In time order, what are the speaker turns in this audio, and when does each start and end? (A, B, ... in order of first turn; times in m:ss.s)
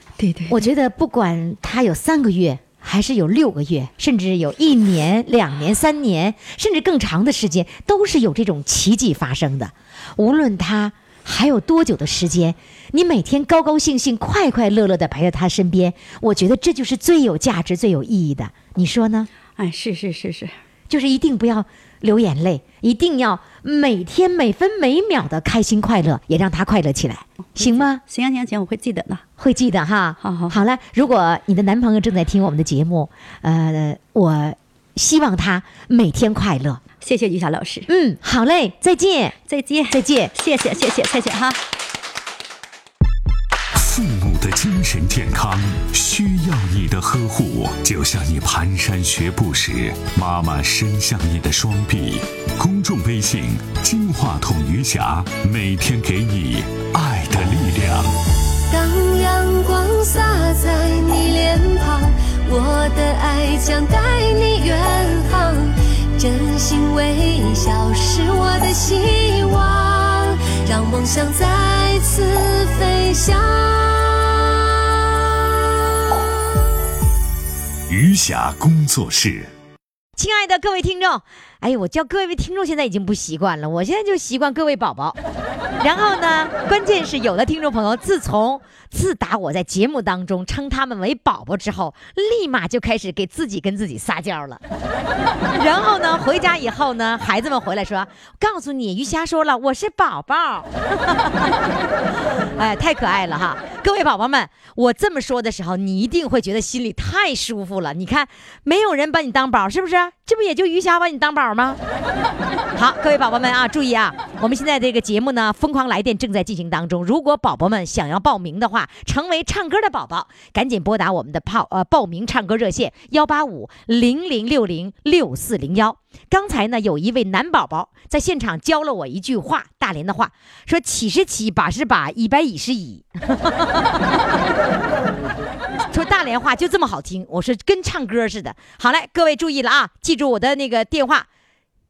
0:00.2-0:00.6 A
0:00.5-0:19.3 B
0:19.6-0:20.5 A
0:20.9-0:28.0 B
0:27.5-0:29.2 A
0:29.4-0:36.8 B
0:30.2-0:30.6 A
0:37.0-0:37.9 A
0:37.9-0:39.4 B
0:39.5-0:41.6 A
0:39.9-0:40.3 B
0:43.7-0:58.1 C
0:58.7-1:14.8 D
1:17.9-1:19.5 C
1:20.2-1:25.2 B
1:25.8-1:34.6 B
1:35.6-1:41.7 B
1:42.6-1:51.8 B
1:52.7-2:14.3 B
2:15.9-2:21.3 B